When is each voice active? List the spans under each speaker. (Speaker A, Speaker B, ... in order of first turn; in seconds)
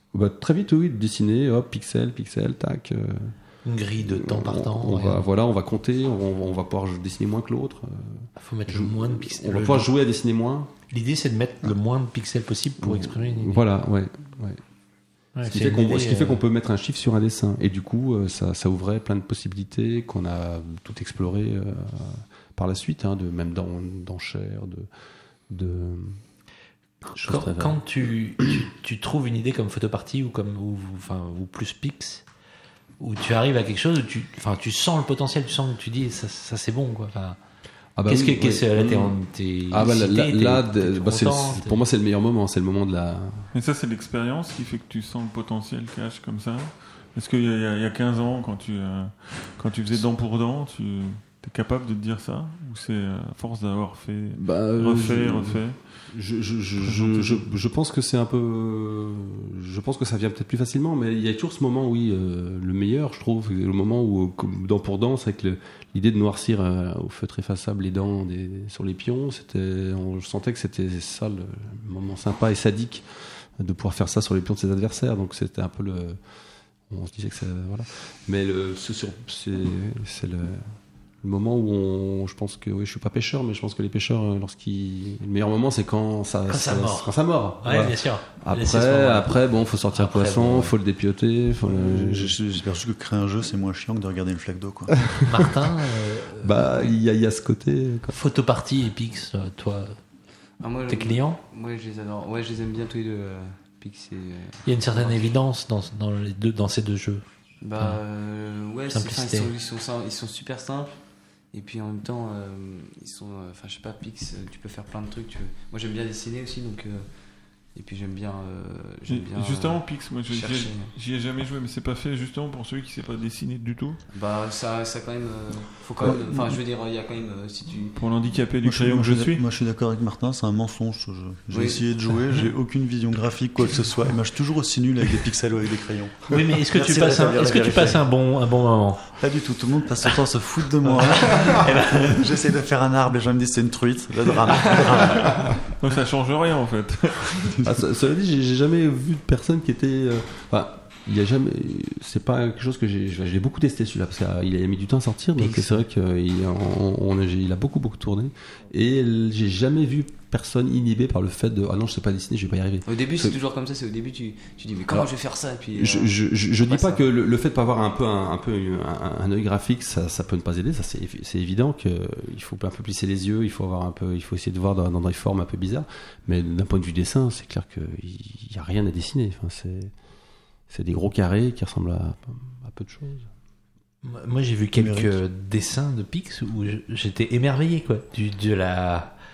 Speaker A: 0.1-3.4, 4.0-10.7, 12.8-14.6, 15.4-24.9, 25.5-26.2, 27.1-27.8, 38.0-39.2, 39.7-43.5, 54.3-76.2, 76.9-92.4, 96.4-98.2, 147.6-163.4, 165.7-179.9, 180.7-183.3
Speaker B: 3.6-5.2, 8.4-9.9, 10.9-13.7, 15.3-16.4, 27.1-32.3, 33.0-37.4, 38.0-41.8, 86.5-89.4, 89.9-90.7, 95.1-96.9, 98.1-100.0, 100.9-101.4, 104.7-107.2, 108.9-109.5, 136.3-139.2, 141.2-142.2, 155.4-155.8, 184.0-189.2
Speaker C: 43.5-56.0, 56.8-57.5, 119.1-124.0, 128.0-129.4, 145.8-147.6
Speaker D: 91.7-95.0, 126.0-126.6, 128.6-138.1, 139.1-145.7, 184.8-185.2
Speaker E: 100.6-105.3, 107.6-111.0, 111.5-117.1, 117.7-120.9, 124.1-128.0, 131.5-131.8, 162.9-167.0